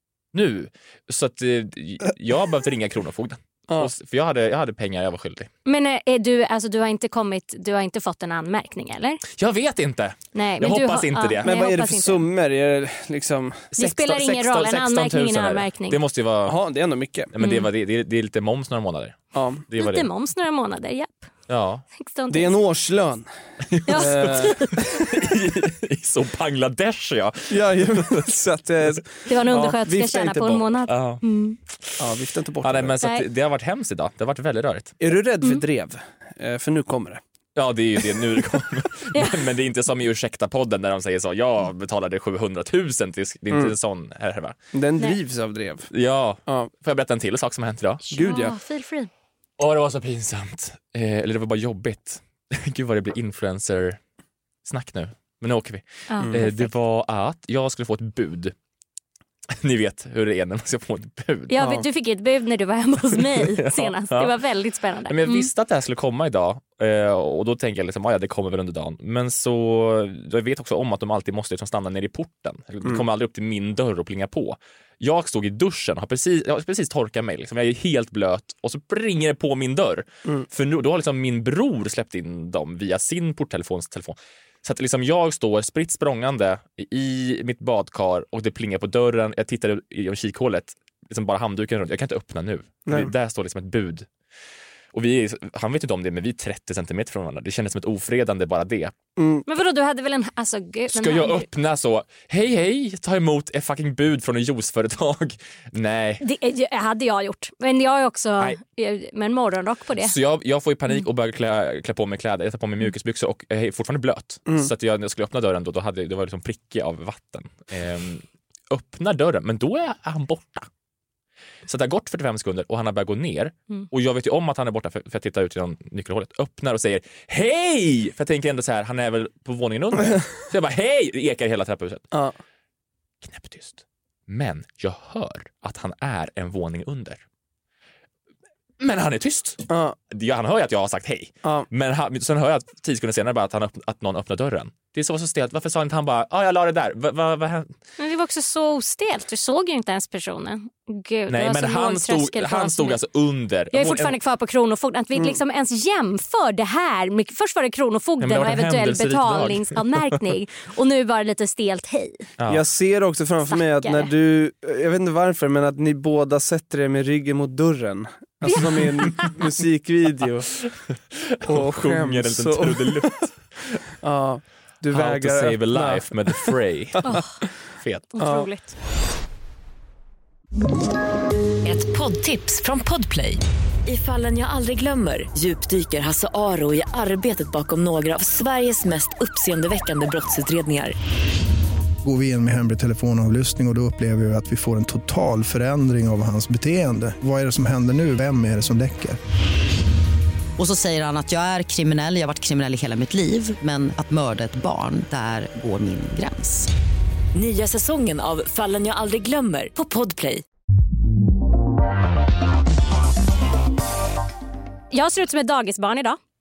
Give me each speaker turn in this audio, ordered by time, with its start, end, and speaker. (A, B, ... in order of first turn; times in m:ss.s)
0:00.3-0:05.5 A
0:05.6-0:09.2 B
0:09.3-0:11.6 A
0:10.3-0:12.2 B
0:11.4-0:13.7 C
0:13.7-0:16.6 A
0:13.8-0:16.0 B
0:16.4-0:17.3 C
0:17.3-0:20.1 A
0:17.4-0:17.7 B
0:19.3-0:19.6 C
0:19.8-0:21.3 B
0:21.5-0:21.8 A
0:22.0-0:22.6 B
0:22.3-0:23.3 C
0:23.7-0:28.3 A
0:23.8-0:24.8 B
0:23.9-0:24.9 C
0:27.5-0:30.6 C
0:29.3-0:31.6 B
0:30.9-0:31.2 A
0:31.7-0:32.1 A
0:32.0-0:33.0 C
0:32.6-0:34.9 A
0:35.0-0:37.2 C
0:37.6-0:44.6 A
0:39.1-0:39.4 B
0:44.7-0:45.9 C
0:45.9-0:48.0 A
0:46.4-0:46.7 C
0:48.1-0:48.5 C
0:48.1-0:49.1 B
0:49.6-0:54.0 A
0:54.6-0:58.5 A
0:56.1-0:56.7 B
0:59.6-1:01.5 A
1:01.5-1:05.5 B
1:01.6-1:01.8 C
1:03.3-1:04.4 A
1:05.1-1:34.1 A
1:34.9-1:38.9 A
1:39.2-1:39.4 C
1:39.4-1:41.5 B
1:40.9-1:46.2 A
1:46.2-1:50.1 B
1:50.0-2:00.7 A
2:01.6-2:12.0 A
2:12.1-2:12.4 C
2:13.2-2:17.2 A
2:18.8-2:27.7 A
2:19.7-2:20.0 C
2:28.0-2:33.0 B
2:31.3-2:34.2 A
2:33.7-2:42.2 B
2:38.2-2:40.1 A
2:42.5-2:50.6 C
2:43.5-2:44.1 B
2:48.4-2:49.4 B
2:51.2-2:53.8 A
2:51.4-2:53.2 C
2:54.0-2:56.5 C
2:54.9-2:57.2 A
2:57.0-2:57.4 B
2:57.8-2:58.1 A
2:58.1-2:58.7 B
2:58.2-2:58.5 C
3:01.6-3:11.0 D
3:12.0-3:19.2 E
3:20.6-3:26.7 F
3:27.3-3:30.4 D
3:34.9-3:36.2 B